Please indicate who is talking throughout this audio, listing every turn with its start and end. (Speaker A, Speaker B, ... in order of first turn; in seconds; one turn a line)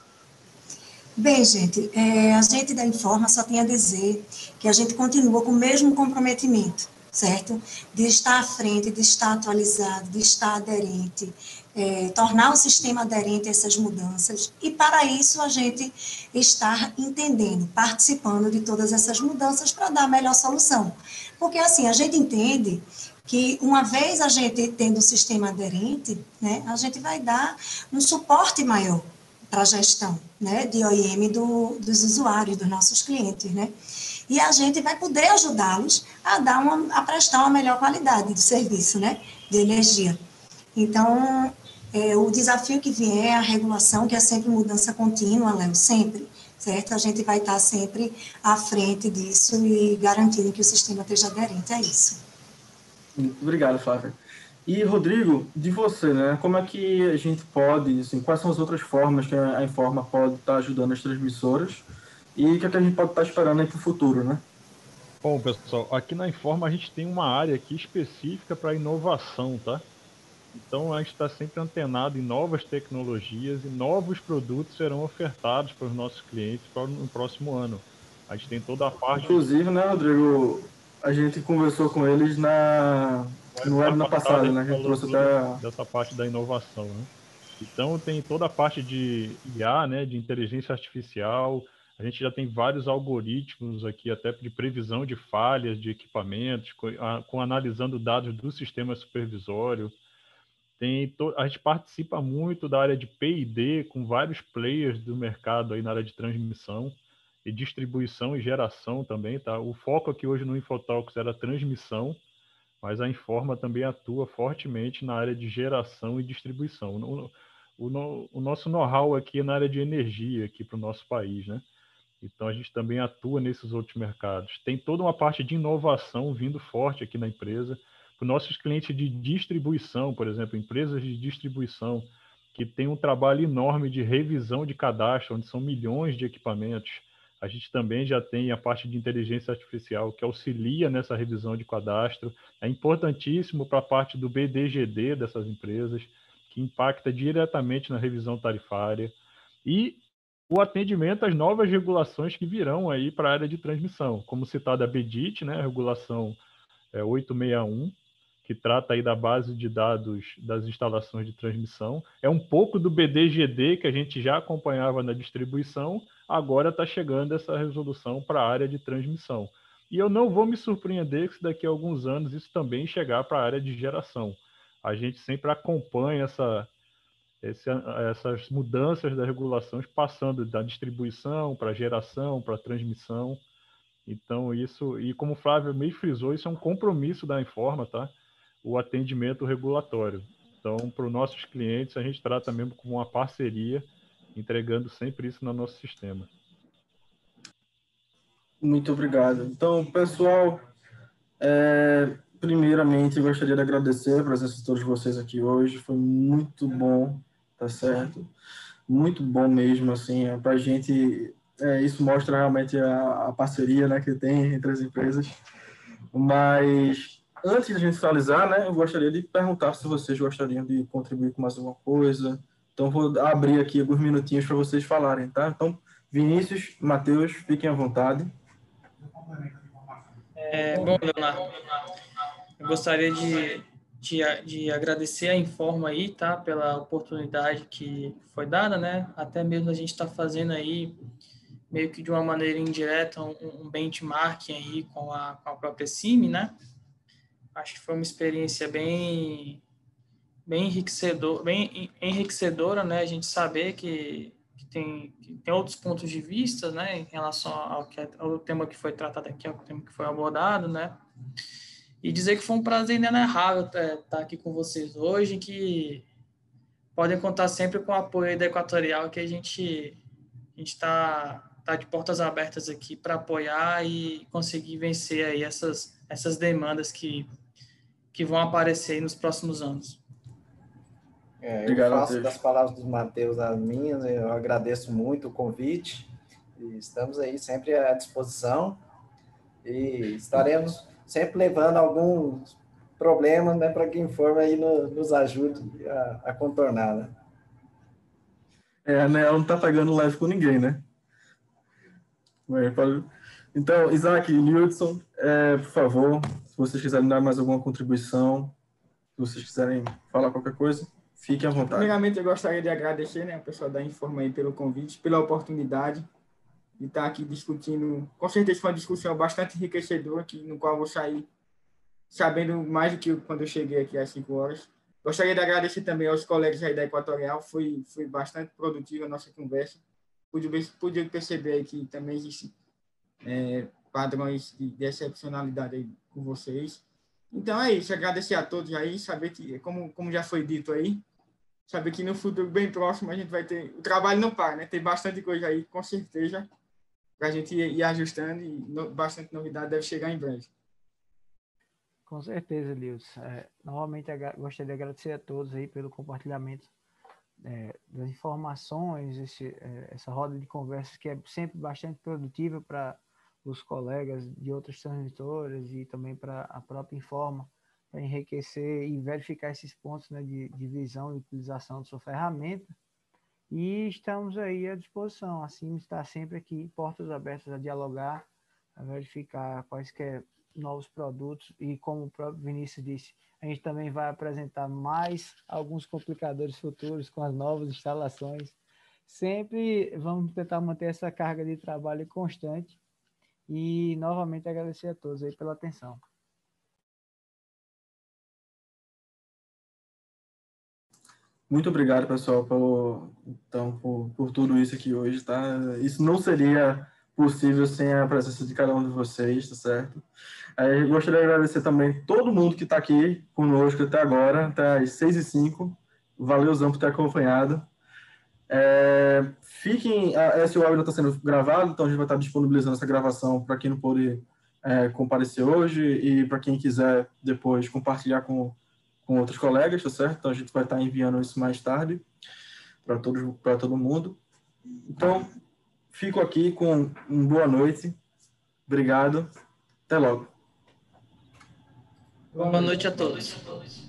Speaker A: 1.2-33.7
Speaker A: 34.3-40.2
Speaker A: 40.7-52.2
Speaker B: 53.1-64.4
Speaker C: 65.2-69.8
Speaker C: 70.5-79.4
Speaker B: 79.1-85.6
Speaker C: 83.5-87.1
Speaker C: 87.6-99.9
Speaker C: 100.8-112.2
Speaker C: 112.8-121.6
Speaker C: 122.2-156.4
Speaker C: 156.9-176.7
Speaker C: 177.4-183.4
Speaker C: 184.1-196.3
Speaker B: 198.6-200.6
Speaker B: 201.4-208.3
Speaker B: 208.9-215.3
Speaker B: 216.1-228.3
Speaker D: 230.3-231.8
Speaker D: 232.6-240.9
Speaker D: 241.7-246.5
Speaker D: 247.5-249.6
Speaker D: 250.4-261.0
Speaker D: 262.0-266.0
Speaker D: 266.9-270.0
Speaker D: 270.6-277.3
Speaker D: 278.1-280.0
Speaker E: 281.4-288.8
Speaker B: 281.6-282.4
Speaker E: 289.6-297.1
Speaker B: 298.8-300.8
Speaker B: 302.5-308.5
Speaker B: 309.1-311.9
Speaker F: 311.6-316.1
Speaker F: 316.8-321.3
Speaker F: 322.1-332.5
Speaker F: 333.2-341.0
Speaker F: 341.7-346.5
Speaker F: 347.2-350.5
Speaker G: 352.1-356.7
Speaker G: 357.4-372.7
Speaker G: 373.5-378.2
Speaker G: 378.8-392.8
Speaker G: 393.5-396.0
Speaker B: 401.5-410.1
Speaker B: 410.6-417.7
Speaker B: 418.5-432.0
Speaker B: 432.8-434.2
Speaker B: 434.9-435.3
Speaker B: 435.9-438.0
Speaker B: 438.7-439.3
Speaker B: 439.9-440.3
Speaker D: 442.3-443.8
Speaker E: 442.3-443.1